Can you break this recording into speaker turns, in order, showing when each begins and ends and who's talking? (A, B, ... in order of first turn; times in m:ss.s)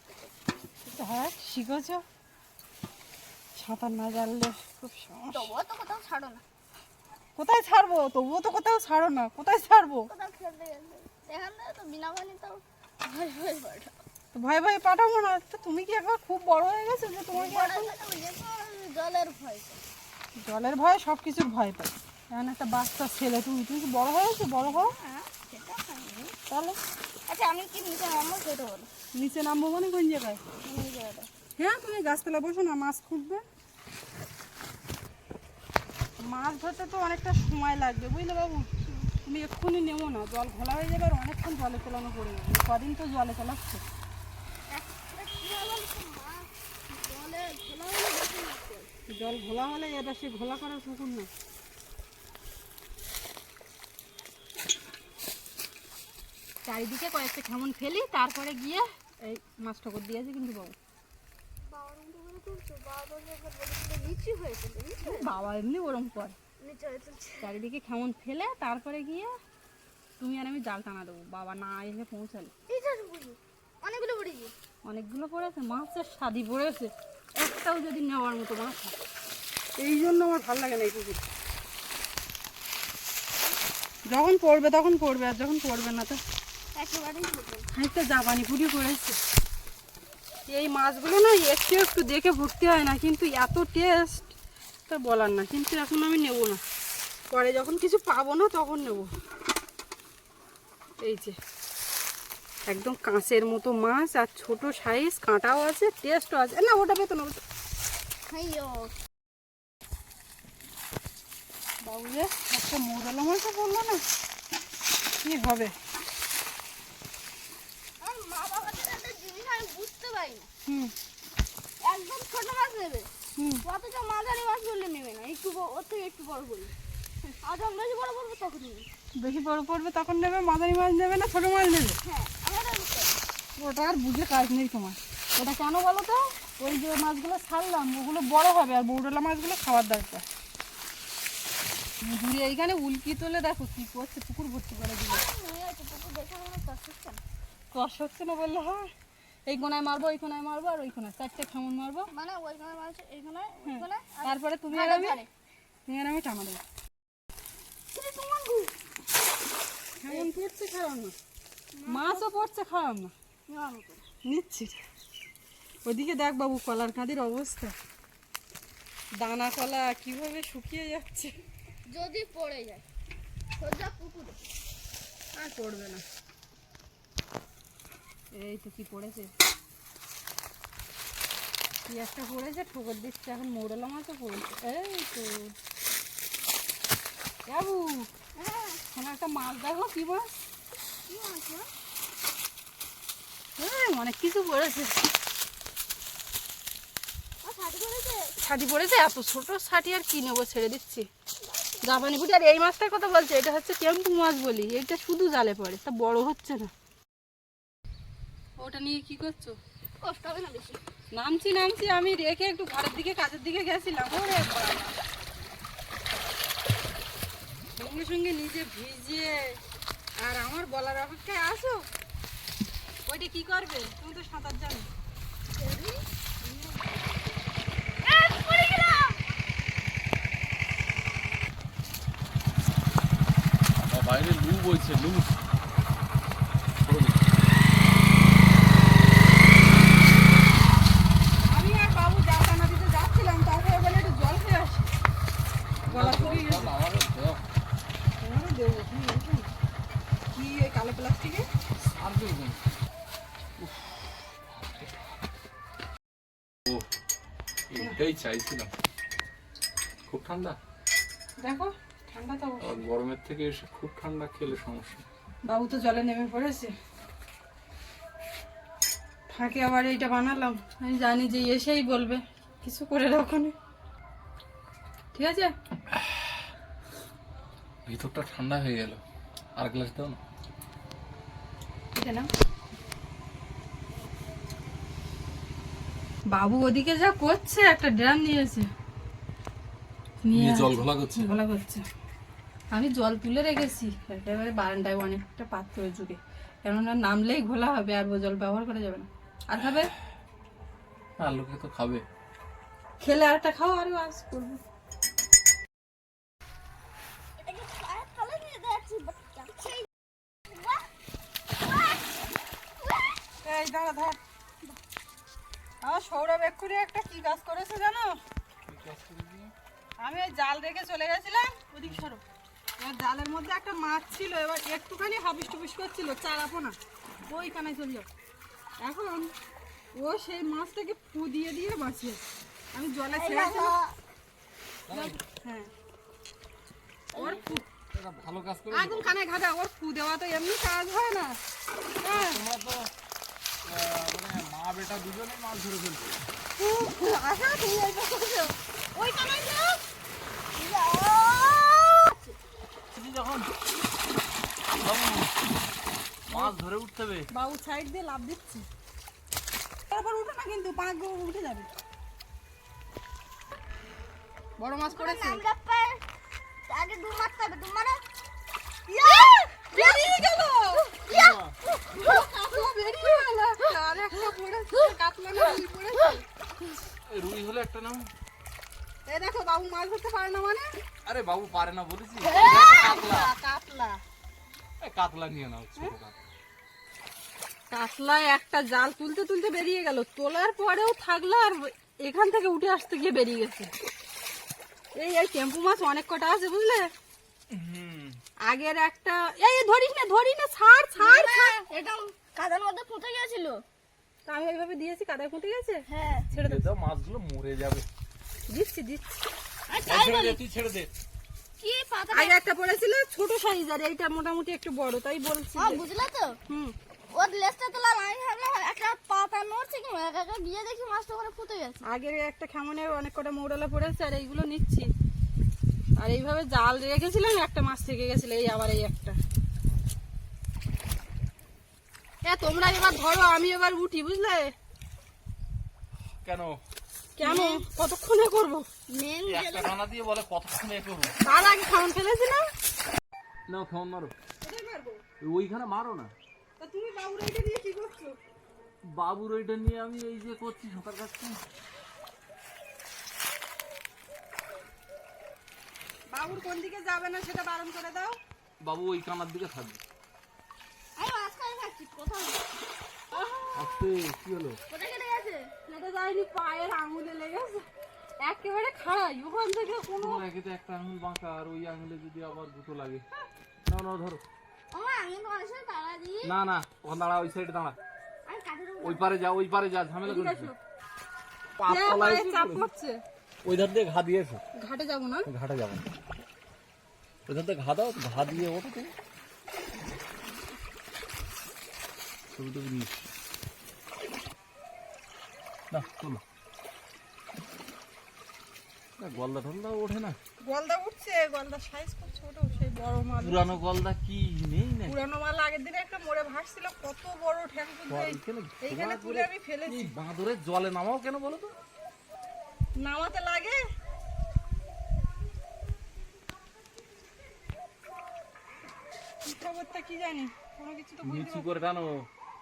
0:00.8-0:02.0 A
0:03.5-0:05.5 A
0:05.3-0:06.4 B
0:07.4-0:10.1 A
0:10.1-0:14.0 B
0:14.3-0:17.9 A
0:17.3-0:19.8 B
0:20.4-0:24.9 A
0:24.6-0:26.3 B
0:26.5-0:26.8 A
0:27.3-0:28.9 B
0:29.1-0:30.4 A
0:30.6-0:31.3 B
0:31.6-0:33.4 A
0:36.2-0:38.7 A
0:39.2-0:43.8 A
0:44.7-0:48.9 B
0:49.1-0:51.3 A
0:56.6-1:00.8 A
1:01.7-1:05.3 B
1:05.0-1:06.4 A
1:06.6-1:07.5 B
1:07.4-1:09.3 A
1:10.2-1:12.5 A
1:12.7-1:14.5 B
1:14.8-1:19.0 A
1:19.8-1:21.2 A
1:24.1-1:26.2 A
1:26.8-1:27.7 B
1:27.7-1:29.2 A
1:30.5-1:34.3 A
1:34.9-1:36.6 A
1:37.3-1:39.1 A
1:41.0-1:41.4 A
1:42.7-1:47.4 A
1:48.3-1:48.9 B
1:51.8-1:54.0 A
1:55.2-1:55.7 A
1:58.0-2:00.5 B
2:00.6-2:00.9 A
2:01.8-2:03.1 B
2:03.4-2:03.6 A
2:03.6-2:06.7 B
2:07.3-2:08.9 B
2:09.2-2:12.0 A
2:12.0-2:13.2 B
2:13.6-2:20.2 A
2:22.0-2:25.2 A
2:25.1-2:27.2 B
2:27.7-2:28.9 A
2:29.5-2:32.1 A
2:32.1-2:35.3 B
2:33.6-2:35.2 A
2:35.9-2:36.6 A
2:37.9-2:38.7 B
2:40.0-2:41.2 A
2:41.7-2:42.3 B
2:41.9-2:43.1 A
2:43.5-2:44.0 B
2:44.2-2:44.8 A
2:45.8-2:47.8 A
2:49.2-2:51.3 A
2:51.9-2:52.8 B
2:53.6-2:54.4 B
2:55.4-2:56.0 A
2:58.3-2:59.3 A
3:01.9-3:05.5 A
3:07.5-3:08.1 A
3:08.3-3:08.8 B
3:08.9-3:10.3 A
3:11.1-3:11.7 B
3:13.6-3:14.9 A
3:17.4-3:18.3 B
3:18.4-3:21.1 A
3:21.4-3:22.1 B
3:21.8-3:26.7 A
3:28.6-3:29.6 A
3:30.0-3:30.8 B
3:31.1-3:34.9 A
3:37.8-3:39.6 A
3:40.2-3:41.9 A
3:43.1-3:44.9 A
3:45.5-3:46.0 B
3:48.0-3:49.2 B
3:53.8-3:55.3 C
3:56.8-3:57.3 C
4:01.5-4:04.9 A
4:05.8-4:07.4 C
4:05.9-4:06.7 A
4:08.2-4:09.5 A
4:10.3-4:11.4 A
4:11.8-4:12.6 C
4:13.6-4:13.9 C
4:14.4-4:15.0 C
4:17.7-4:18.7 C
4:20.1-4:20.6 C
4:21.4-4:22.8 A
4:22.6-4:25.0 C
4:25.4-4:26.7 A
4:29.3-4:33.5 A
4:35.1-4:35.5 A
4:37.8-4:39.0 C
4:39.6-4:40.2 C
4:41.9-4:42.3 A
4:46.3-4:48.7 A
4:50.2-4:51.8 A
4:50.3-4:51.3 C
4:52.7-4:59.9 A
5:01.2-5:02.0 C
5:03.0-5:04.6 A
5:07.4-5:09.9 B
5:10.5-5:10.9 B
5:11.6-5:12.1 B
5:12.8-5:13.1 B
5:13.4-5:14.2 A
5:15.8-5:18.2 A
5:18.6-5:19.5 C
5:20.0-5:22.2 A
5:22.8-5:28.1 A
5:28.8-5:29.3 A
5:30.0-5:32.2 A
5:32.7-5:33.7 A
5:33.1-5:34.0 B
5:34.9-5:35.2 C
5:34.9-5:35.7 A
5:37.1-5:37.6 B
5:37.2-5:37.6 A
5:37.9-5:39.1 C
5:38.7-5:41.4 A
5:42.0-5:42.4 A
5:42.1-5:42.9 C
5:43.6-5:46.1 C
5:46.6-5:48.5 A
5:48.9-5:49.8 B
5:50.6-5:52.3 B
5:52.9-5:53.5 C
5:54.7-5:55.4 C
5:56.3-5:57.3 C
5:57.3-5:58.6 A
5:59.9-6:01.7 A
6:04.6-6:05.4 A
6:04.9-6:06.0 B
6:06.7-6:08.0 B
6:08.9-6:12.9 B
6:09.0-6:10.8 A
6:11.1-6:11.5 C
6:11.9-6:16.2 A
6:17.1-6:18.1 C
6:19.1-6:20.7 A
6:21.0-6:23.3 C
6:22.3-6:23.1 B
6:22.4-6:24.0 A
6:24.8-6:26.2 C
6:27.7-6:33.7 A
6:34.9-6:36.9 A
6:37.5-6:38.2 C
6:38.5-6:41.6 A
6:41.0-6:43.6 B
6:44.2-6:46.7 A
6:45.9-6:46.3 B
6:46.3-6:47.8 C
6:48.5-6:49.2 A
6:49.7-6:50.4 B
6:49.8-6:50.9 C
6:51.6-6:52.4 B
6:52.1-6:55.8 A
6:55.6-6:56.4 B
6:56.5-6:56.7 A
6:57.1-7:01.8 B
7:01.8-7:04.9 A
7:06.0-7:09.2 A
7:12.2-7:14.5 A
7:16.2-7:16.6 C
7:17.2-7:18.7 A
7:17.2-7:17.6 B
7:18.9-7:19.7 B
7:19.3-7:21.1 C
7:21.2-7:22.5 A
7:23.5-7:24.1 C
7:24.4-7:25.0 A
7:25.2-7:26.1 C
7:26.6-7:28.2 A
7:28.9-7:31.4 C
7:36.1-7:38.2 A
7:38.6-7:39.8 C
7:41.0-7:42.4 B
7:43.1-7:43.5 A
7:43.5-7:44.6 C
7:44.7-7:45.5 B
7:45.7-7:47.6 A
7:48.2-7:50.2 A
7:50.0-7:53.0 C
7:53.6-7:54.2 C
7:54.7-7:56.3 B
7:56.2-7:57.8 C
7:58.2-7:59.1 B
7:58.8-8:00.5 C
8:00.0-8:00.6 A
8:01.6-8:02.6 C
8:01.7-8:03.0 A
8:03.4-8:04.4 C
8:04.6-8:05.3 A
8:05.3-8:05.8 C
8:07.2-8:08.9 C
8:12.3-8:12.9 C
8:15.7-8:16.2 C
8:19.0-8:20.2 C
8:20.4-8:23.6 A
8:23.2-8:25.0 C
8:24.9-8:29.9 A
8:27.9-8:31.5 C
8:32.8-8:33.6 A
8:39.2-8:41.5 A
8:41.0-8:42.1 C